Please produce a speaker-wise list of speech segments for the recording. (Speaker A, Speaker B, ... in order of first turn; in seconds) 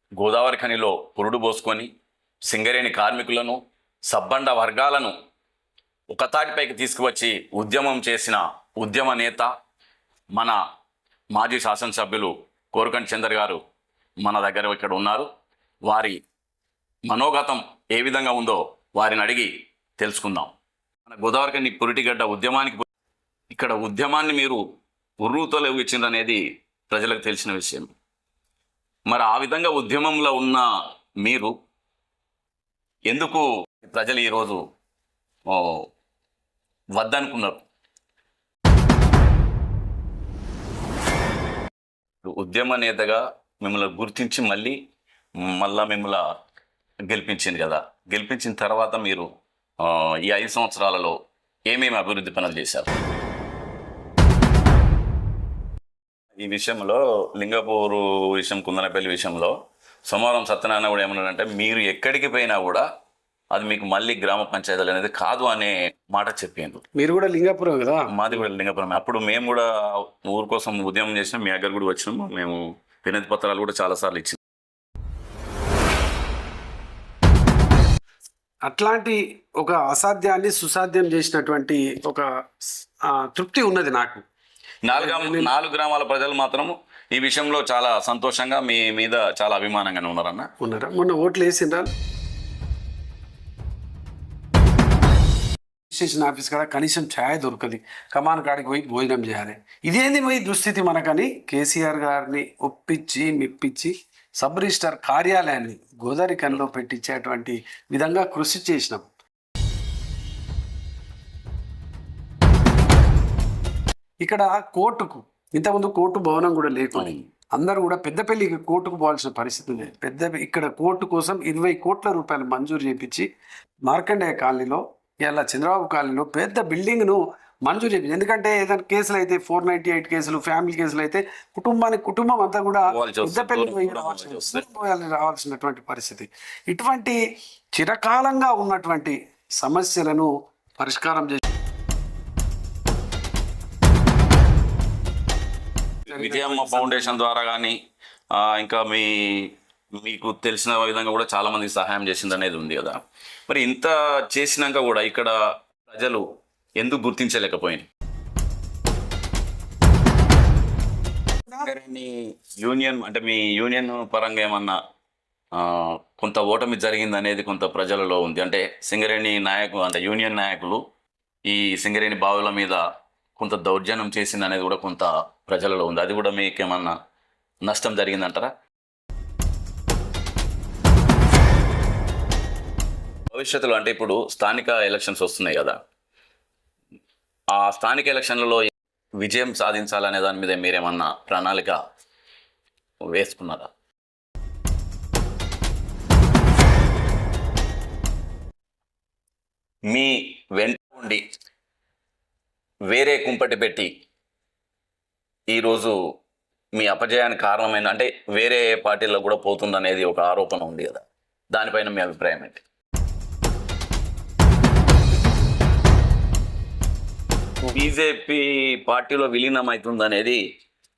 Speaker A: 0.2-1.9, 2.5-5.1, 6.1-9.5, 11.3-13.6, 14.2-15.3, 15.8-16.2, 17.1-20.5, 21.1-22.9, 23.5-24.6, 25.2-27.9, 29.1-30.7, 31.2-31.5, 33.1-34.6, 35.5-35.9, 37.0-37.6, 42.2-44.8, 45.4-46.2, 47.1-49.3, 49.8-51.1, 51.7-52.9, 56.4-59.5, 60.1-62.8, 63.5-66.8, 68.1-74.4, 84.8-90.5, 116.9-117.2, 132.9-134.7, 146.1-147.8, 148.3-155.3, 155.8-156.2, 156.8-157.8, 161.6-164.8, 165.5-170.8, 171.4-172.8, 173.4-176.9, 177.6-178.5, 183.3-185.8, 187.5-188.7, 189.2-191.8, 193.1-193.7, 199.9-201.2, 202.9-203.9, 205.5-205.9, 206.8-212.6, 217.7-220.4
Speaker B: 67.0-68.3, 78.7-84.2, 84.9-85.5, 90.6-91.9, 95.9-109.1, 114.2-123.2, 123.9-137.2, 137.7-141.4, 146.1-147.2